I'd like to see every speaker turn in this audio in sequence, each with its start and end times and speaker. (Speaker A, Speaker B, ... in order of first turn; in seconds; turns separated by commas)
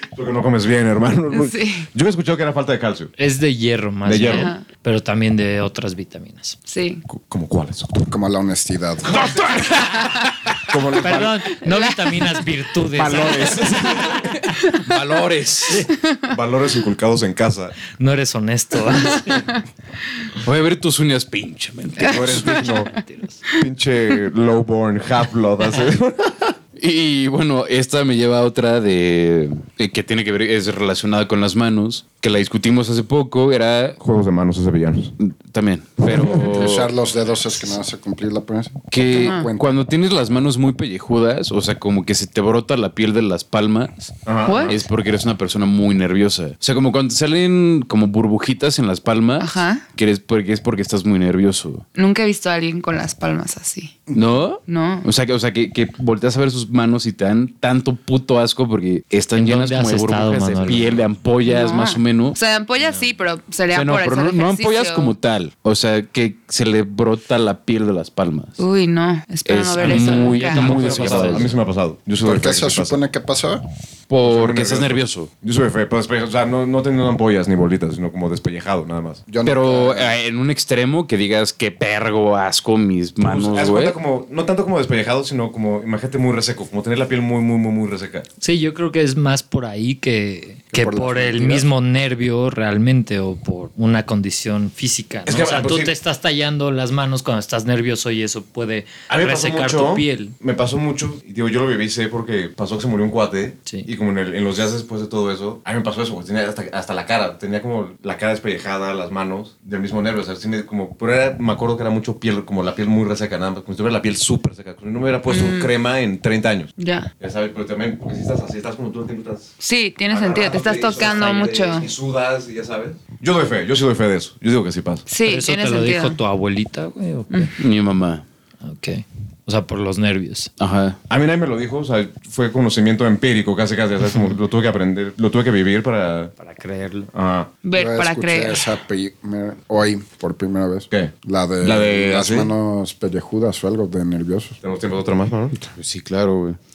Speaker A: 0.1-3.1, Speaker B: 1.3-1.9, Speaker C: 3.2-6.6, Speaker A: 4.0-4.5, Speaker B: 4.2-4.6, Speaker B: 6.7-7.0, Speaker A: 7.1-8.1, Speaker D: 8.1-9.1, Speaker A: 9.0-10.1, Speaker A: 10.7-11.5, Speaker C: 11.0-13.7, Speaker A: 12.9-14.3, Speaker E: 14.0-15.9, Speaker A: 16.3-17.7, Speaker C: 18.0-19.5, Speaker E: 20.4-22.7, Speaker A: 22.0-22.9, Speaker B: 22.0-22.4, Speaker C: 22.9-23.4, Speaker A: 23.5-26.6, Speaker E: 26.8-34.0, Speaker A: 34.0-35.1, Speaker E: 35.2-36.9, Speaker D: 36.1-39.6, Speaker E: 38.9-51.8, Speaker B: 39.1-39.5, Speaker A: 44.2-44.8, Speaker B: 44.5-44.7, Speaker B: 49.4-49.8, Speaker B: 51.9-54.0, Speaker E: 54.1-62.4, Speaker B: 54.6-55.1, Speaker C: 59.3-61.0, Speaker B: 61.4-65.1, Speaker C: 62.8-63.1, Speaker E: 63.7-68.6, Speaker B: 68.6-70.6, Speaker E: 69.4-71.5, Speaker C: 69.8-71.5, Speaker A: 70.5-73.0, Speaker D: 72.2-73.6, Speaker E: 74.1-75.3, Speaker A: 74.2-79.2, Speaker D: 79.3-80.1, Speaker E: 79.4-84.0, Speaker A: 83.2-88.2, Speaker C: 88.4-100.3, Speaker D: 90.7-91.7, Speaker A: 95.2-95.9, Speaker A: 99.1-119.5, Speaker B: 115.3-115.7, Speaker B: 116.8-117.1, Speaker B: 119.6-121.9, Speaker A: 120.1-125.0, Speaker B: 125.1-126.2, Speaker C: 125.2-127.5, Speaker E: 127.6-128.2, Speaker C: 128.6-130.5, Speaker E: 130.6-131.0, Speaker A: 131.1-136.3, Speaker C: 136.4-137.1, Speaker A: 137.1-137.5, Speaker B: 137.6-138.7, Speaker D: 137.7-144.5, Speaker A: 140.9-142.5, Speaker A: 144.6-145.6, Speaker E: 145.6-146.6